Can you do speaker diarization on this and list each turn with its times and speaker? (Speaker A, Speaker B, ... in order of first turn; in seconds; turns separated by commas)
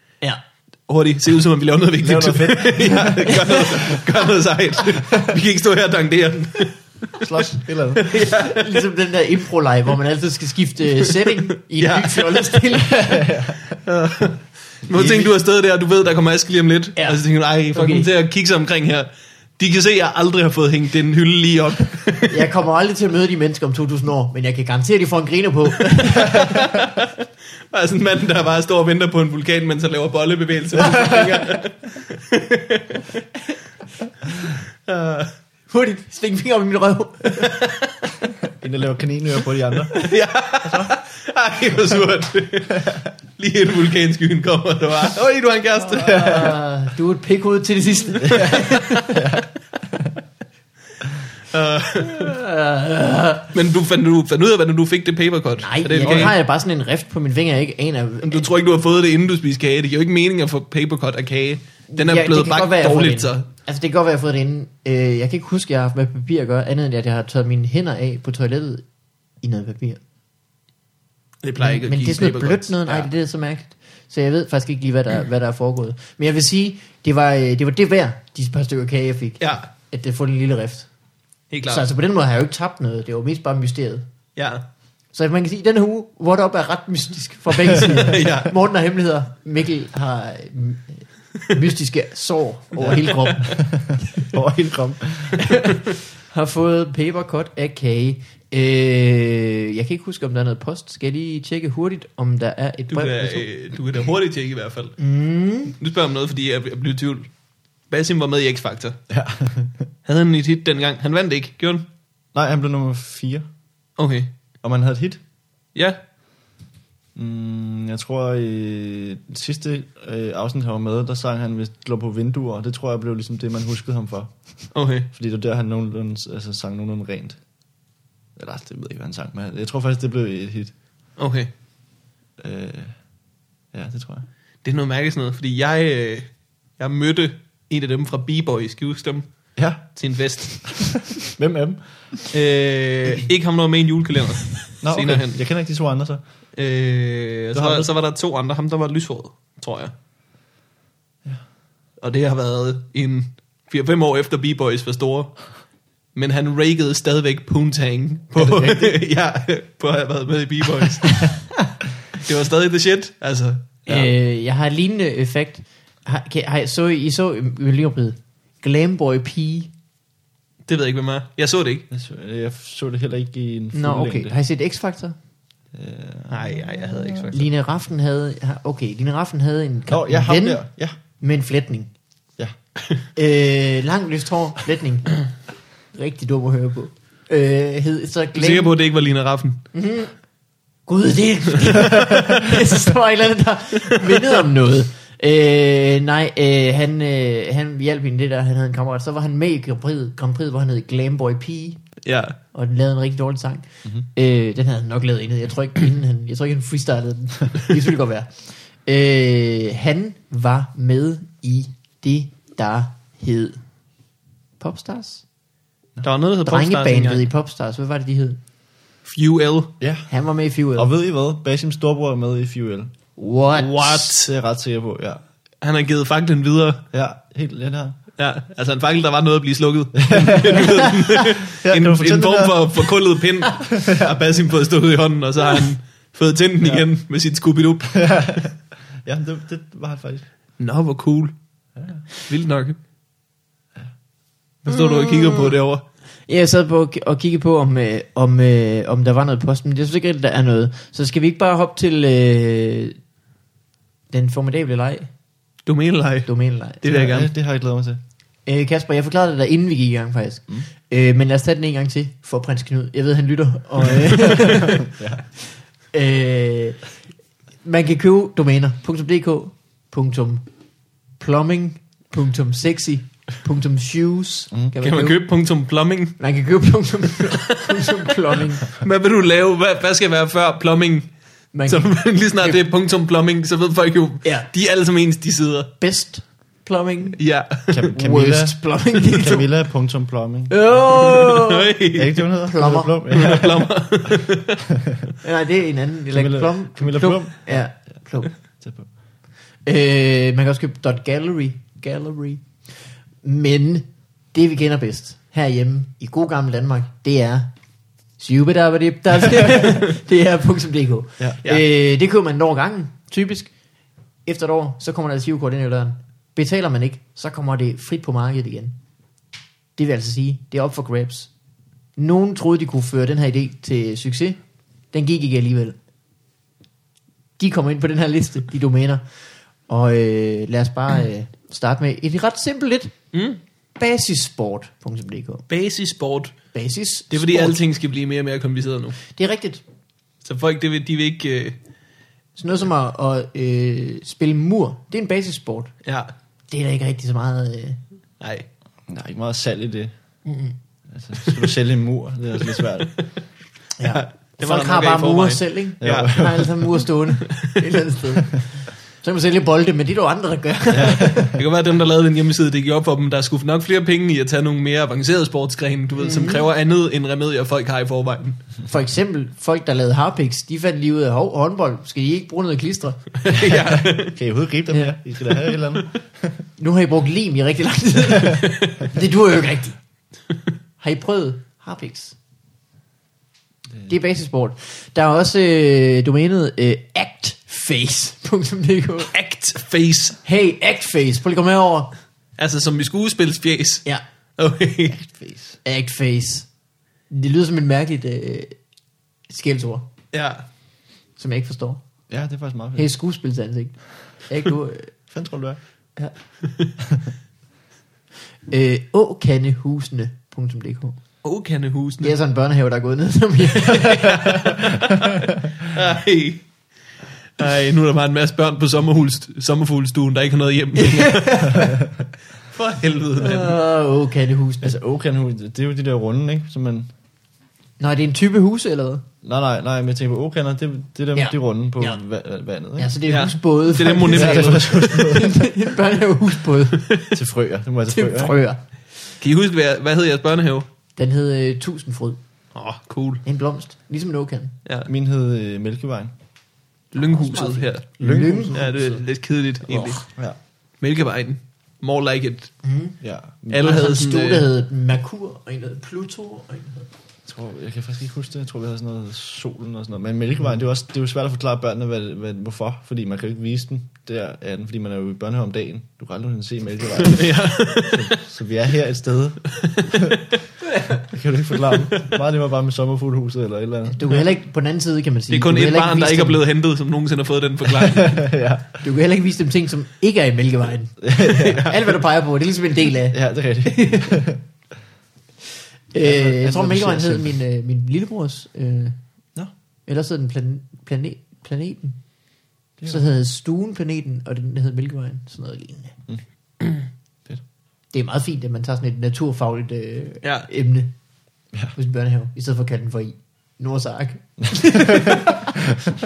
Speaker A: 0.9-6.8, Speaker B: 2.0-4.0, Speaker C: 3.3-3.9, Speaker B: 7.2-8.1, Speaker A: 8.0-8.8, Speaker C: 8.4-13.3, Speaker A: 11.1-12.6, Speaker B: 12.9-13.7, Speaker A: 13.8-22.4, Speaker C: 14.9-15.3, Speaker C: 16.9-17.2, Speaker C: 17.7-18.1, Speaker C: 22.3-26.7, Speaker A: 26.1-27.1, Speaker A: 27.7-33.0, Speaker A: 34.9-35.3, Speaker C: 35.7-37.7, Speaker B: 38.6-40.0, Speaker A: 39.9-46.4, Speaker B: 40.6-40.9, Speaker C: 45.8-49.2, Speaker B: 46.0-46.5, Speaker B: 48.2-50.1, Speaker A: 48.5-49.2, Speaker A: 51.5-52.3, Speaker C: 52.1-53.5, Speaker A: 53.5-56.3, Speaker C: 55.6-58.5, Speaker B: 56.0-56.3, Speaker A: 58.2-63.5, Speaker C: 61.9-68.8, Speaker C: 69.4-70.0, Speaker A: 71.4-73.1, Speaker C: 71.6-80.9, Speaker A: 79.4-79.7, Speaker A: 81.5-81.8, Speaker C: 81.7-84.0, Speaker A: 84.3-84.6, Speaker C: 85.1-93.5, Speaker A: 87.8-88.5, Speaker B: 92.8-95.4, Speaker A: 92.8-93.5, Speaker C: 95.4-103.5, Speaker A: 102.9-105.0, Speaker C: 105.0-105.8, Speaker A: 105.7-107.3, Speaker A: 107.9-109.0, Speaker B: 109.1-109.9, Speaker A: 110.0-111.9, Speaker B: 112.3-113.4, Speaker A: 114.0-114.3, Speaker B: 114.6-115.2, Speaker B: 117.1-127.4, Speaker A: 124.7-125.1, Speaker B: 128.3-130.7, Speaker A: 131.2-131.5, Speaker B: 132.4-132.9, Speaker B: 133.7-134.2, Speaker A: 134.6-141.1, Speaker B: 139.6-139.8, Speaker B: 140.6-142.1, Speaker A: 142.3-145.4, Speaker B: 144.8-146.2, Speaker A: 146.6-149.9, Speaker B: 147.5-147.9, Speaker A: 152.0-155.5, Speaker A: 156.1-161.4, Speaker B: 158.4-158.9, Speaker A: 162.2-163.8, Speaker C: 163.9-169.7, Speaker A: 170.7-171.8, Speaker B: 171.9-174.3, Speaker C: 173.7-175.2, Speaker B: 175.7-177.2, Speaker A: 176.3-177.5, Speaker C: 177.3-180.6, Speaker B: 179.9-180.9, Speaker C: 181.2-181.9, Speaker C: 183.1-185.2, Speaker C: 185.9-188.7, Speaker A: 188.3-189.6, Speaker C: 189.7-190.2, Speaker C: 190.9-201.8, Speaker A: 202.0-202.4, Speaker C: 202.5-213.6, Speaker C: 214.6-215.2, Speaker A: 216.0-217.2, Speaker C: 216.4-218.4, Speaker A: 219.0-219.7, Speaker B: 219.8-220.1, Speaker C: 220.1-220.9, Speaker B: 220.7-222.9, Speaker C: 223.2-224.1, Speaker A: 223.6-224.3, Speaker B: 224.1-225.2, Speaker A: 225.6-226.8, Speaker B: 226.9-228.0, Speaker A: 228.2-238.2, Speaker B: 230.0-230.9, Speaker B: 231.4-232.9, Speaker B: 233.7-234.1, Speaker B: 237.9-240.2, Speaker A: 240.6-241.3, Speaker B: 241.8-242.1, Speaker A: 242.1-242.8, Speaker A: 244.6-245.8, Speaker C: 244.7-245.5, Speaker C: 246.2-253.0, Speaker C: 254.1-255.1, Speaker A: 255.7-256.3, Speaker C: 256.2-256.8, Speaker A: 256.8-257.3, Speaker B: 256.9-258.0, Speaker C: 258.4-264.9, Speaker B: 264.8-265.2, Speaker C: 265.9-266.8, Speaker C: 267.6-270.4, Speaker C: 271.2-275.2, Speaker A: 274.8-276.2, Speaker C: 276.2-278.7, Speaker A: 277.3-278.0, Speaker A: 278.6-281.1, Speaker C: 281.5-282.6, Speaker A: 281.7-285.7, Speaker C: 285.8-287.2, Speaker A: 287.2-287.8, Speaker B: 287.7-290.6, Speaker C: 287.9-289.4, Speaker C: 290.5-291.7, Speaker A: 290.9-292.2, Speaker B: 291.9-294.2, Speaker C: 292.4-292.9, Speaker A: 293.1-294.6, Speaker C: 295.2-298.3, Speaker B: 296.1-297.6, Speaker B: 298.6-298.9, Speaker C: 299.6-302.7, Speaker C: 303.2-307.5, Speaker C: 308.2-313.5, Speaker C: 314.2-318.7, Speaker C: 319.8-321.3, Speaker C: 322.0-324.4, Speaker C: 324.9-325.8, Speaker C: 327.4-329.0, Speaker C: 329.7-332.9, Speaker A: 333.1-333.4, Speaker C: 333.8-335.4, Speaker A: 335.5-336.4, Speaker C: 336.5-337.6, Speaker A: 337.1-339.0, Speaker C: 339.1-339.6, Speaker A: 340.2-341.6, Speaker C: 342.4-345.7, Speaker A: 345.8-346.1, Speaker C: 346.5-347.8, Speaker A: 348.2-348.5, Speaker B: 348.9-349.9, Speaker C: 350.2-350.5, Speaker B: 350.9-352.9, Speaker C: 353.8-361.3, Speaker A: 353.9-356.1, Speaker B: 355.8-356.6, Speaker B: 360.7-361.4, Speaker A: 361.3-368.4, Speaker C: 366.0-366.5, Speaker C: 368.7-373.1, Speaker A: 373.2-374.1, Speaker B: 373.3-376.4, Speaker C: 376.6-379.8, Speaker C: 380.8-382.1, Speaker C: 383.9-389.1, Speaker A: 389.1-390.2, Speaker C: 390.2-391.9, Speaker A: 392.4-393.9, Speaker A: 394.4-395.0, Speaker B: 394.9-395.6, Speaker C: 395.6-396.5, Speaker C: 397.1-398.5, Speaker C: 399.3-399.9, Speaker A: 400.1-400.4, Speaker C: 401.2-401.8, Speaker B: 402.1-402.9, Speaker C: 402.8-404.9, Speaker B: 405.1-405.6, Speaker C: 408.5-411.0, Speaker A: 411.2-412.1, Speaker C: 412.0-414.6, Speaker A: 413.6-416.5, Speaker A: 417.4-421.5, Speaker C: 420.8-421.8, Speaker A: 422.5-423.6, Speaker C: 423.2-424.8, Speaker B: 424.6-426.9, Speaker C: 427.8-429.0, Speaker B: 429.2-432.9, Speaker C: 431.1-432.0, Speaker C: 432.8-436.9, Speaker A: 433.1-435.0, Speaker B: 434.0-435.4, Speaker B: 437.1-438.3, Speaker C: 437.9-438.6, Speaker A: 439.2-440.7, Speaker C: 441.0-442.2, Speaker A: 442.5-443.2, Speaker C: 443.2-444.5, Speaker A: 444.6-444.9, Speaker B: 444.9-446.1, Speaker A: 446.9-450.1, Speaker C: 447.0-449.0, Speaker B: 448.0-449.0, Speaker B: 449.7-450.4, Speaker A: 450.8-452.6, Speaker C: 452.6-453.0, Speaker B: 453.0-453.6, Speaker C: 453.5-456.9, Speaker A: 453.5-454.4, Speaker B: 457.2-470.2, Speaker A: 467.0-468.2, Speaker A: 469.6-470.1, Speaker B: 471.0-474.0, Speaker C: 473.9-476.4, Speaker A: 475.3-478.2, Speaker B: 477.7-478.8, Speaker C: 478.8-484.2, Speaker B: 481.0-481.7, Speaker A: 481.4-481.8, Speaker B: 483.1-484.4, Speaker C: 485.9-489.0, Speaker B: 486.0-487.3, Speaker C: 489.9-492.0, Speaker C: 492.9-495.9, Speaker C: 497.9-500.9, Speaker A: 500.2-500.5, Speaker C: 501.8-505.5, Speaker B: 504.7-505.2